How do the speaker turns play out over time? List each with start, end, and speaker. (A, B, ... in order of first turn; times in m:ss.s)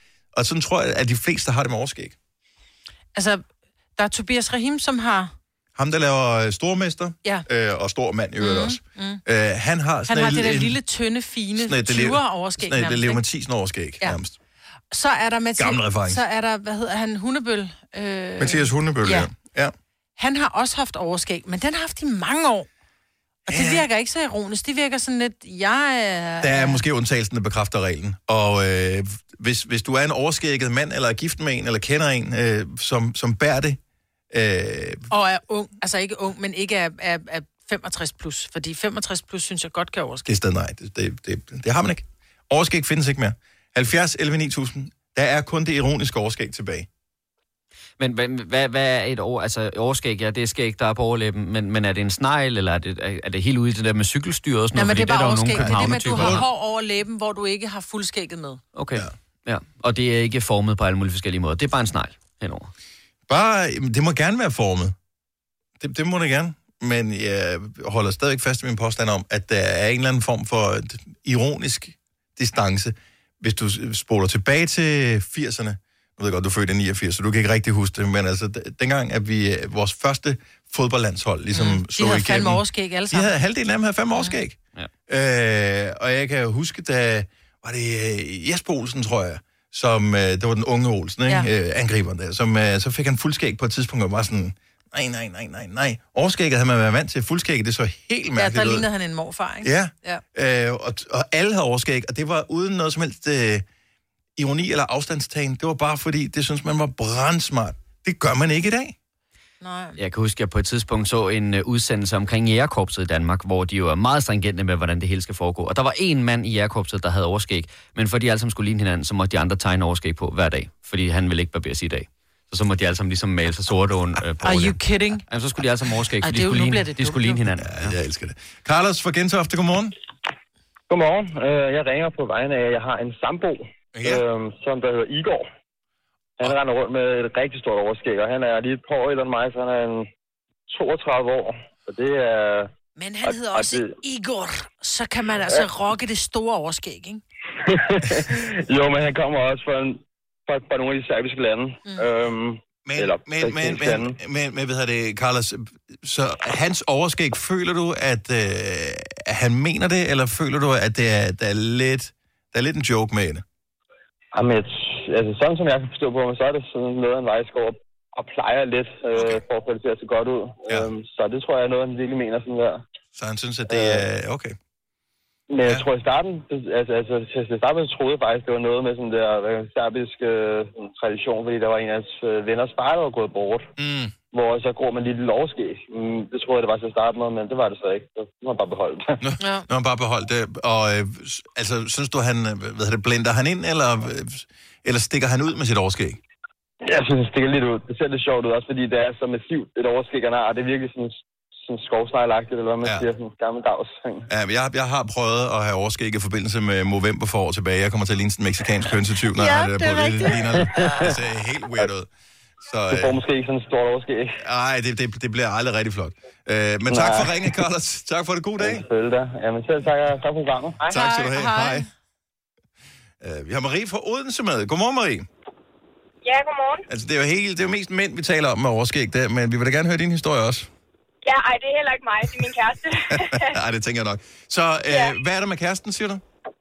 0:00.3-0:02.1 A
0:03.1-0:03.4 B
0:04.0-0:05.3 B
0:05.8-0:10.8 A
0:08.4-0:09.2 B
0:10.1-0:13.2 B
0:11.6-0:14.4 A
0:14.9-0:19.3 B
0:15.6-0:16.2 A
0:18.4-0:19.7 A
0:20.2-0:22.7 B
0:23.5-0:23.8 A
0:23.5-0:26.8 B
0:26.4-0:33.8 A
0:34.3-0:35.1 A
0:35.1-0:40.3 B
0:40.2-0:46.9 A
0:48.0-0:56.4 C
0:54.7-0:58.6 B
0:55.5-0:56.4 A
0:58.7-1:02.7 C
1:03.3-1:04.9 A
1:05.8-1:38.9 A
1:21.5-1:23.3 B
1:38.3-1:40.2 B
1:39.6-1:43.6 A
1:44.4-1:48.9 A
1:49.6-1:50.0 B
1:50.0-2:07.9 C
2:04.4-2:05.2 B
2:06.2-2:07.4 B
2:07.6-2:09.9 A
2:10.9-2:15.4 D
2:14.0-2:14.2 A
2:16.4-2:20.1 D
2:20.7-2:22.7 D
2:23.0-2:27.2 B
2:23.2-2:23.9 D
2:27.6-2:34.1 D
2:32.8-2:43.4 A
2:44.3-2:52.8 D
2:49.2-2:49.4 A
2:53.2-2:54.6 A
2:53.7-2:54.0 D
2:55.5-3:03.7 D
3:03.8-3:04.1 A
3:04.3-3:09.2 D
3:09.2-3:16.2 A
3:09.4-3:09.7 B
3:16.8-3:24.3 D
3:24.3-3:32.1 A
3:29.4-3:30.3 B
3:30.5-3:31.1 D
3:32.7-3:33.1 A
3:32.9-3:34.4 D
3:34.4-3:38.8 A
3:36.9-3:37.6 D
3:38.6-3:40.9 D
3:40.9-3:41.9 A
3:40.9-3:41.9 B
3:43.2-3:45.3 A
3:46.2-3:46.8 E
3:46.9-3:50.7 A
3:51.2-3:53.6 E
3:53.1-3:56.2 A
3:54.9-3:55.2 E